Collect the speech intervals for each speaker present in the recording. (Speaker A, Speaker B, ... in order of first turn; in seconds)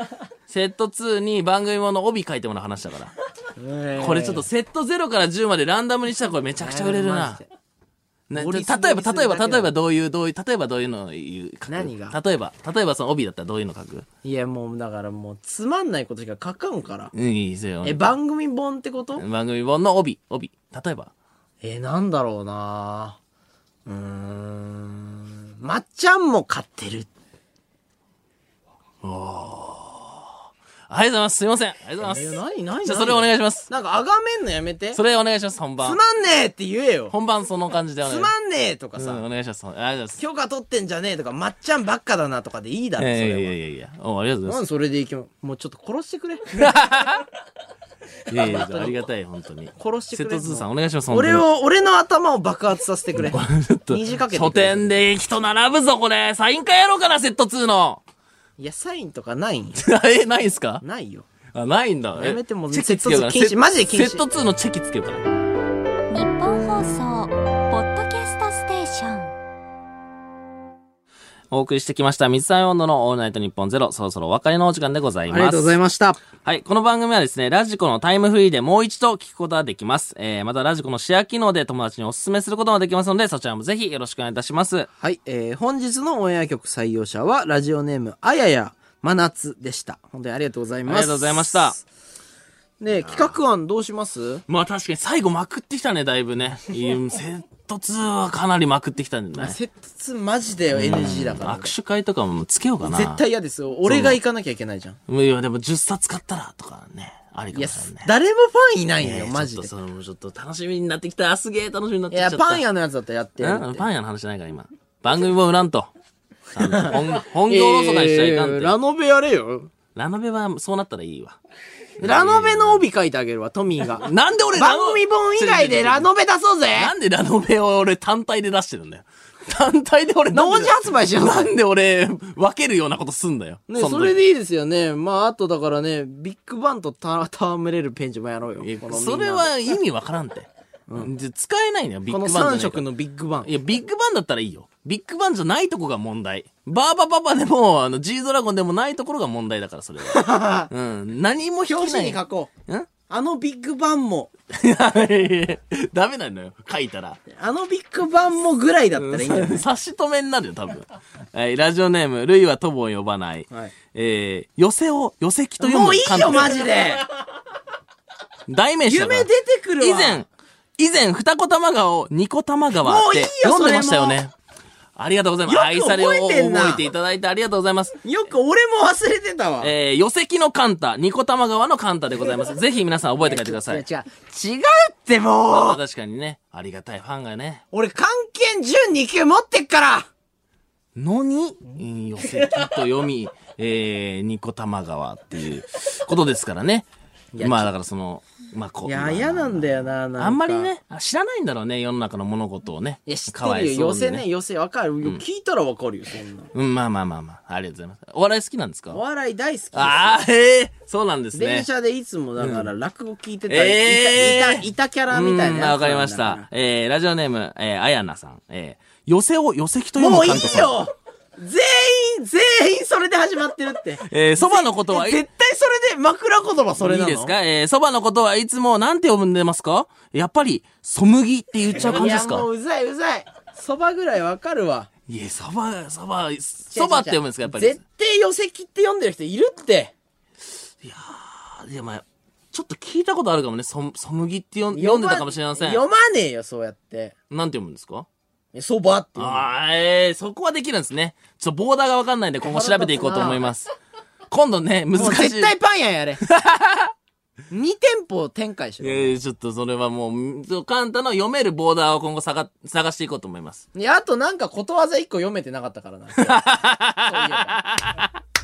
Speaker A: 0.5-3.1, 4.0-7.4, 8.3-14.1, 17.1-18.0, 19.2-21.1, 29.0-30.3, 30.9-33.7, 34.9-36.0, 37.1-38.3, 39.0-40.2, 43.0-44.6, 46.6-47.3, 48.3-51.4, 53.2-58.0, 59.8-60.8, 61.5-65.4, 71.5-75.7, 76.4-84.9, 90.9-91.8, 93.0-93.3, 94.5-99.6, 100.7-103.2, 103.8-104.2, 105.1-108.1, 109.0-112.6, 113.4-115.9, 116.5-118.8, 120.0-121.4, 122.0-122.8, 123.9-126.1, 126.8-134.2, 138.6-142.9, 143.4-152.9, 154.5-157.2, 159.0-166.7, 168.5-170.3, 170.8-174.3, 175.0-178.0, 179.6-183.8, 185.5-187.6, 191.0-196.9, 197.4-204.2, 206.5-209.0, 209.7-211.7, 212.4-212.7, 213.5-220.8, 224.1-225.2, 226.8-232.5, 235.1-237.8, 240.8-245.8, 247.3-248.1, 249.2-253.7, 254.3-255.5, 256.2-256.9, 258.8-263.6, 266.2-268.2
Speaker B: 3.6-4.5, 6.6-7.5, 8.3-9.7, 11.7-12.2, 14.2-17.1, 17.8-19.2, 21.6-23.2, 23.9-27.1, 32.0-35.0, 35.8-37.1, 38.0-39.2, 40.2-43.5, 44.5-46.8, 48.3-49.0, 49.8-54.9, 58.6-59.8, 60.8-61.3, 62.2-64.2, 75.3-76.2, 85.0-91.8, 92.8-94.4, 99.4-101.7, 102.8-105.0, 107.5-109.7, 112.1-113.9, 116.6-119.7, 122.0-126.9, 130.3-131.5, 133.7-139.5, 142.1-143.5, 150.0-150.7, 151.6-152.5, 153.1-154.3, 157.3-159.7, 165.6-167.1, 168.9-170.2, 172.7-174.2, 175.4-176.8, 178.0-179.7, 183.2-185.8, 187.7-190.1, 197.3-197.7, 198.8-200.7, 203.1-206.5, 208.9-210.2, 211.3-216.5, 220.0-227.3, 231.7-234.9, 236.7-239.9, 244.7-247.1, 248.5-249.5, 252.4-253.5, 254.9-256.2, 257.5-259.1, 263.8-267.6
Speaker C: 66.1-69.3